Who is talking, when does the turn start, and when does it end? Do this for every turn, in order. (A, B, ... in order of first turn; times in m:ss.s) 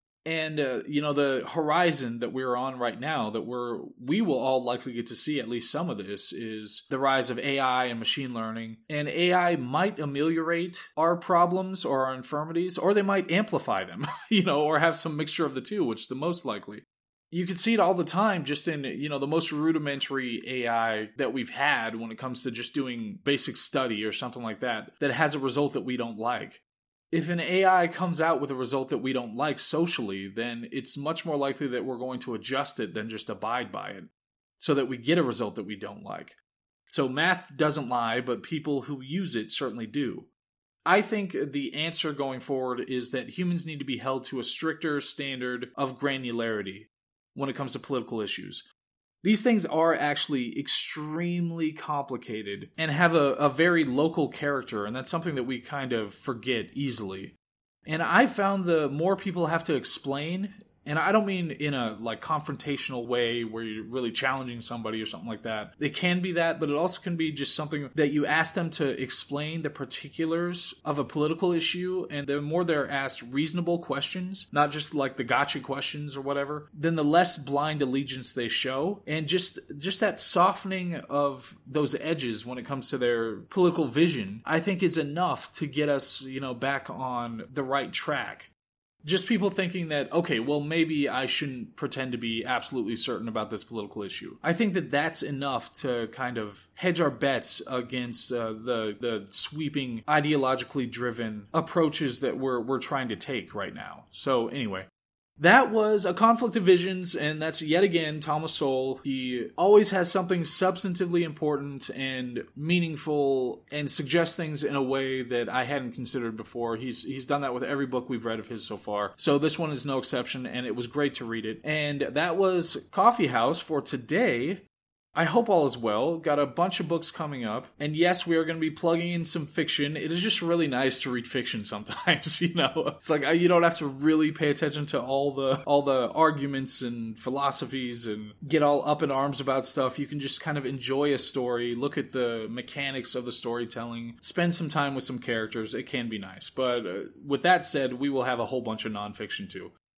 0:00.3-0:36.4 A
0:36.9-0:40.3 A
0:40.9-0:48.7 A
0:49.2-0:57.4 A
0:57.9-1:28.5 A
1:29.0-1:44.9 A
1:45.4-2:04.6 A
2:05.2-2:29.7 A